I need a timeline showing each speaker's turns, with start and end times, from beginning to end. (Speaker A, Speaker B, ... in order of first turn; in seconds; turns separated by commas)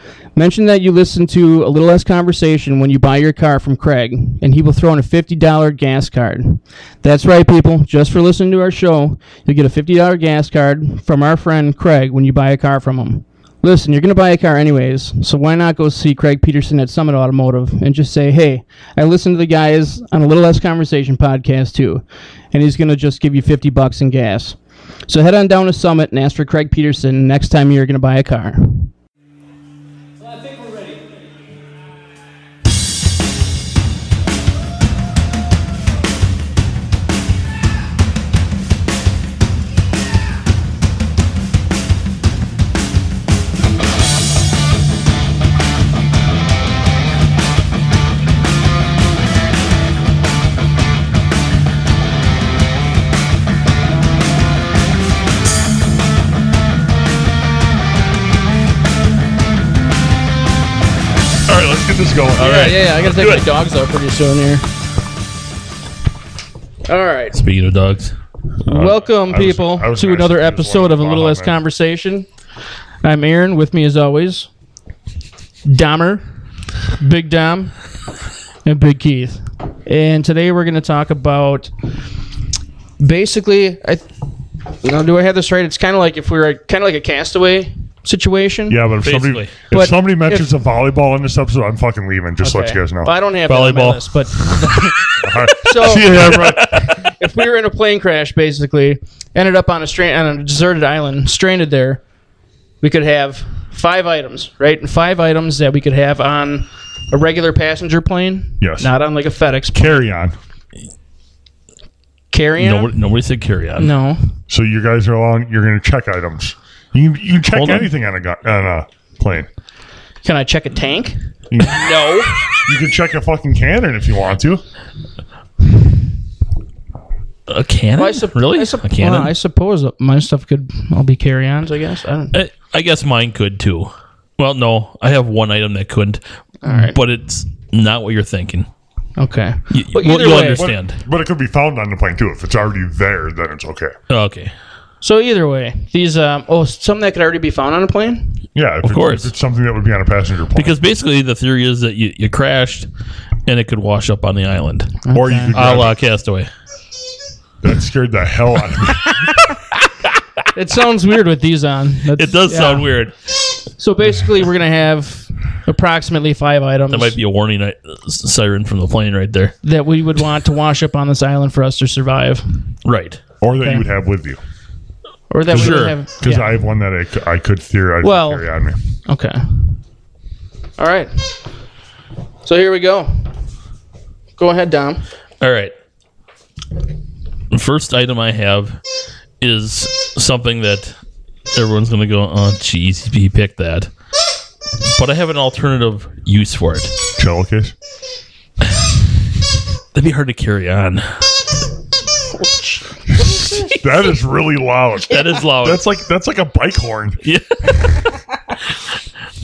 Speaker A: 0.3-28.9, Speaker B: 61.5-62.6, Speaker C: 62.4-63.5, Speaker A: 62.4-64.6, Speaker A: 66.9-67.4, Speaker C: 67.3-68.1, Speaker B: 68.7-71.6, Speaker A: 68.7-72.3, Speaker A: 73.0-74.5, Speaker A: 75.7-76.2, Speaker A: 76.9-77.7, Speaker A: 78.7-81.7, Speaker A: 83.0-84.1, Speaker A: 84.8-88.8, Speaker B: 88.7-93.1, Speaker C: 89.0-89.6, Speaker A: 89.7-90.5, Speaker A: 92.4-102.0, Speaker C: 93.5-94.1, Speaker B: 95.2-96.9, Speaker A: 102.8-110.0, Speaker B: 108.6-108.9, Speaker B: 109.7-110.4, Speaker A: 112.3-112.9, Speaker C: 112.6-113.9, Speaker A: 113.8-114.2, Speaker B: 114.5-119.5, Speaker C: 117.5-117.9, Speaker A: 120.2-122.4, Speaker B: 121.5-121.9, Speaker B: 122.5-124.6, Speaker C: 127.5-129.3, Speaker A: 128.0-132.4, Speaker C: 132.3-138.7, Speaker A: 136.6-137.0, Speaker A: 139.2-140.7, Speaker C: 139.7-141.0, Speaker B: 140.2-143.9, Speaker C: 144.1-144.5, Speaker A: 145.0-148.4, Speaker B: 148.6-150.8, Speaker C: 148.8-149.3, Speaker C: 150.5-152.9, Speaker C: 153.5-155.0, Speaker A: 155.0-155.6, Speaker B: 155.1-156.0, Speaker C: 155.5-156.5, Speaker B: 157.6-159.2, Speaker A: 160.5-163.0, Speaker C: 162.2-163.1, Speaker A: 163.8-167.2, Speaker C: 166.9-169.6, Speaker A: 169.6-172.4, Speaker C: 172.8-173.2, Speaker B: 173.4-174.4, Speaker A: 173.6-173.9, Speaker A: 175.3-176.6, Speaker B: 175.5-178.8, Speaker C: 175.5-176.0, Speaker A: 178.0-178.5, Speaker A: 179.1-179.6, Speaker A: 180.8-181.2, Speaker A: 182.4-183.1, Speaker A: 184.4-185.0, Speaker C: 185.4-185.7, Speaker C: 187.5-188.8, Speaker C: 189.4-191.0, Speaker C: 191.5-193.9, Speaker C: 194.8-196.9, Speaker B: 197.2-197.8, Speaker C: 199.9-201.3, Speaker A: 202.4-203.8, Speaker B: 203.2-207.2, Speaker C: 205.1-205.8, Speaker C: 207.2-208.2